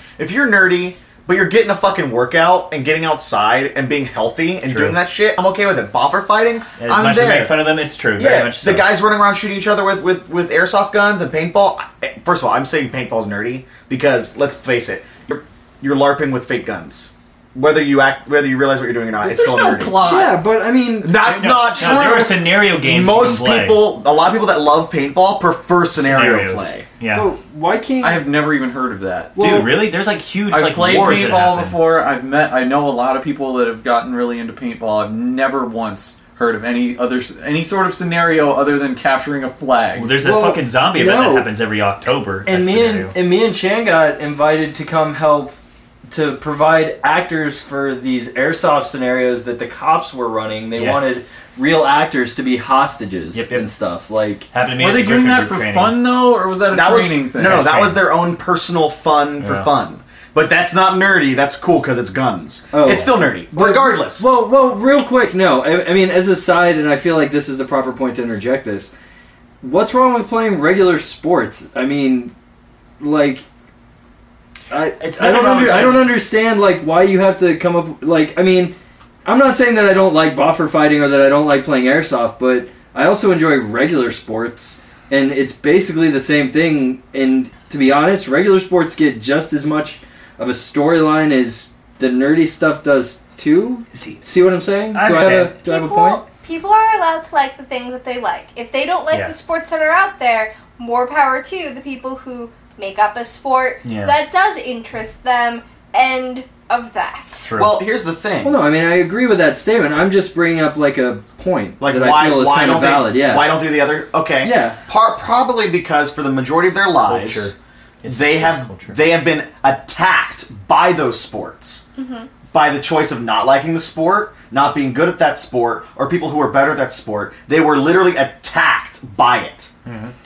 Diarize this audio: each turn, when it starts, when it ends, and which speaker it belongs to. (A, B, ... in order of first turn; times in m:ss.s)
0:00.2-0:20.0 A
0:04.7-0:05.0 B
0:06.8-0:08.9 B
0:19.2-0:20.4 C
0:20.0-0:21.2 D
0:21.0-0:26.8 A
0:21.2-0:23.8 B
0:21.8-0:22.3 D
0:26.0-0:27.3 B
0:27.1-0:28.2 D
0:28.0-0:29.7 C
0:29.4-0:29.7 D
0:29.4-0:31.8 B
0:30.5-0:40.1 C
0:40.0-0:43.1 B
0:40.2-0:41.5 D
0:42.5-0:45.5 D
0:46.1-0:54.5 D
0:50.8-0:51.0 B
0:53.3-0:53.7 B
0:54.5-0:56.0 B
0:54.8-0:57.7 C
0:56.7-1:04.3 A
0:57.4-0:58.0 B
0:59.4-0:59.7 B
1:02.7-1:08.9 D
1:09.6-1:12.3 D
1:13.0-1:13.4 D
1:14.7-1:36.2 D
1:15.0-1:16.2 B
1:33.9-1:34.2 B
1:34.9-1:35.6 B
1:35.6-1:47.5 E
1:43.8-1:44.2 B
1:47.4-1:47.8 B
1:47.6-1:48.6 A
1:48.4-1:53.6 D
1:51.8-1:57.5 A
1:54.4-1:54.8 D
1:57.0-1:59.0 B
1:58.0-2:01.8 A
2:02.0-2:02.3 E
2:02.5-2:09.7 A
2:09.8-2:10.1 B